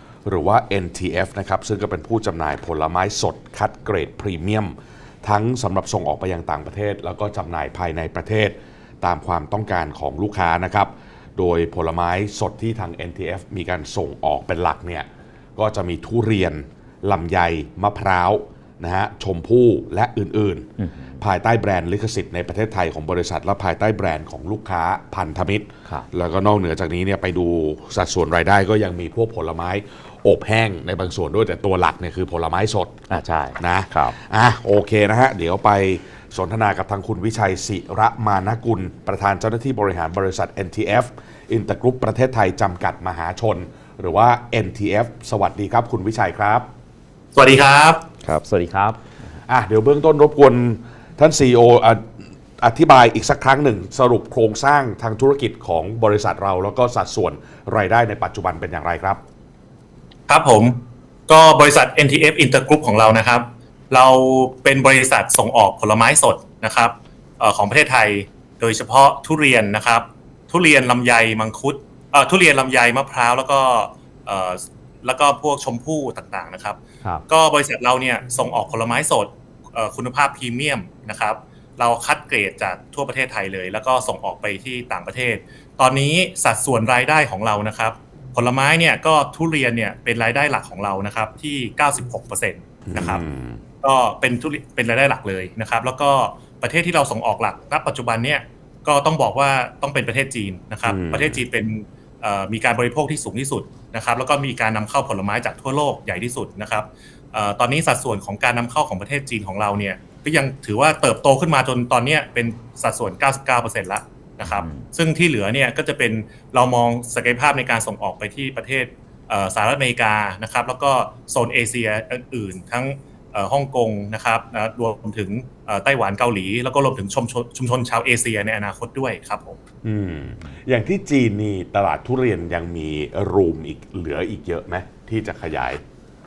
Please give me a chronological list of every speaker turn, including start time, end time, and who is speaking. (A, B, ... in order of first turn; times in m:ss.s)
0:00.2-0:20.7 A
0:20.8-0:21.2 B
0:21.2-0:33.0 A
0:33.1-0:34.2 B
0:33.6-0:46.7 A
0:47.3-0:48.0 C
0:48.2-0:49.0 B
0:49.5-0:59.2 A
1:00.3-1:00.8 C
1:01.3-1:33.2 C
1:32.9-1:33.6 A
1:33.8-2:09.6 C
1:40.8-1:41.4 A
1:54.4-1:54.9 B
2:09.8-2:15.8 A